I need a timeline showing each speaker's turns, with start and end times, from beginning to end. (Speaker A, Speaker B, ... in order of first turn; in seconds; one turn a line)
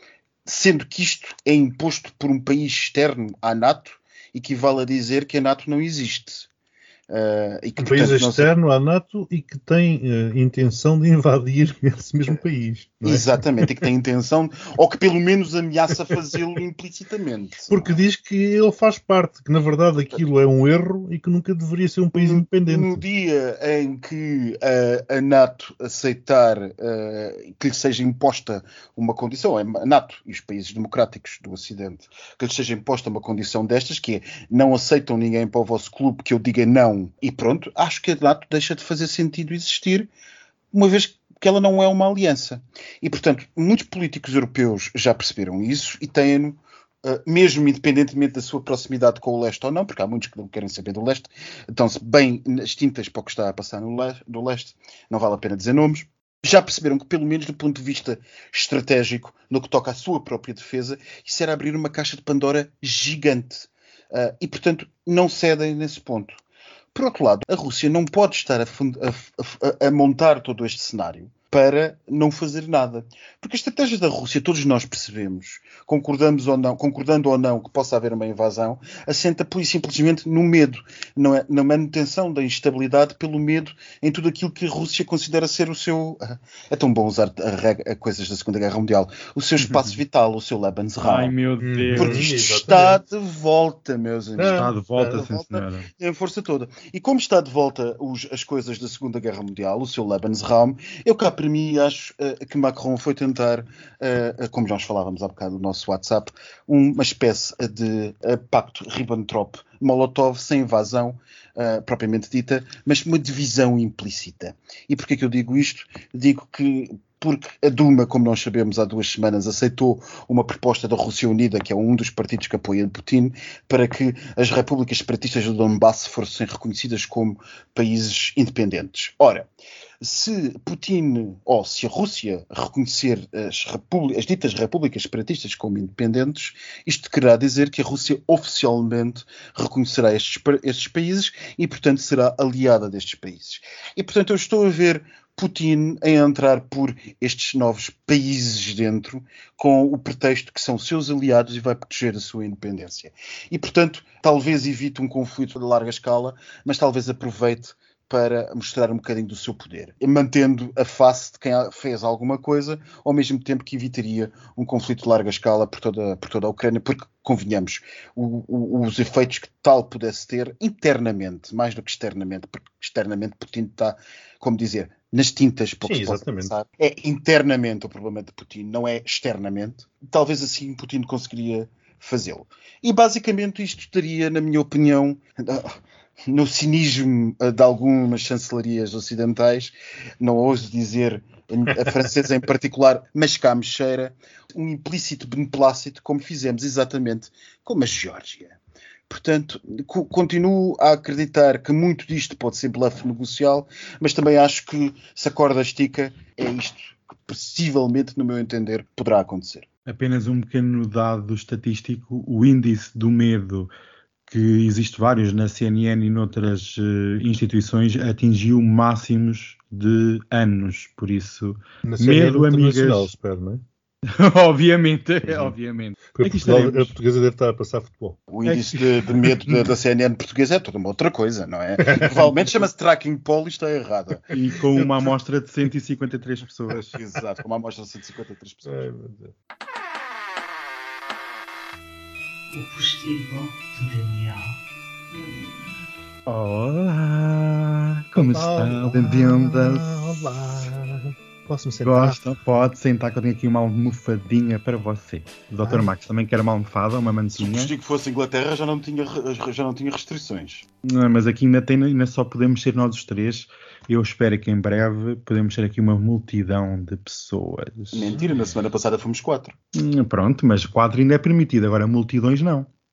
Speaker A: 0.5-6.5
Speaker A: 7.1-8.5
Speaker B: 7.8-13.7
Speaker A: 13.0-17.9
Speaker B: 17.7-23.0
Speaker A: 22.1-40.1
Speaker A: 40.7-66.4
Speaker A: 66.9-91.3
Speaker C: 89.6-90.0
Speaker C: 91.0-92.3
Speaker B: 91.6-93.0
Speaker A: 92.0-129.5
Speaker B: 94.4-95.2
Speaker C: 94.5-95.9
Speaker A: 130.0-198.6
Speaker B: 175.8-176.6
Speaker A: 199.1-209.7
Speaker C: 209.9-213.7
Speaker C: 214.3-223.1
Speaker B: 221.8-223.6
Speaker C: 224.1-226.9
Speaker B: 226.1-228.2
Speaker A: 228.3-234.3
Speaker C: 228.4-229.7
Speaker B: 231.8-232.3
Speaker C: 234.3-236.9
Speaker B: 234.7-235.1
Speaker A: 236.9-238.9
Speaker B: 238.6-239.3
Speaker B: 242.6-244.3
Speaker C: 246.3-250.6
Speaker B: 248.2-252.2
Speaker C: 251.8-257.7
Speaker B: 255.6-255.9
Speaker A: 257.4-260.6
Speaker C: 260.8-268.2
Speaker A: 267.9-269.6
Speaker B: 268.1-268.5
Speaker C: 269.7-272.7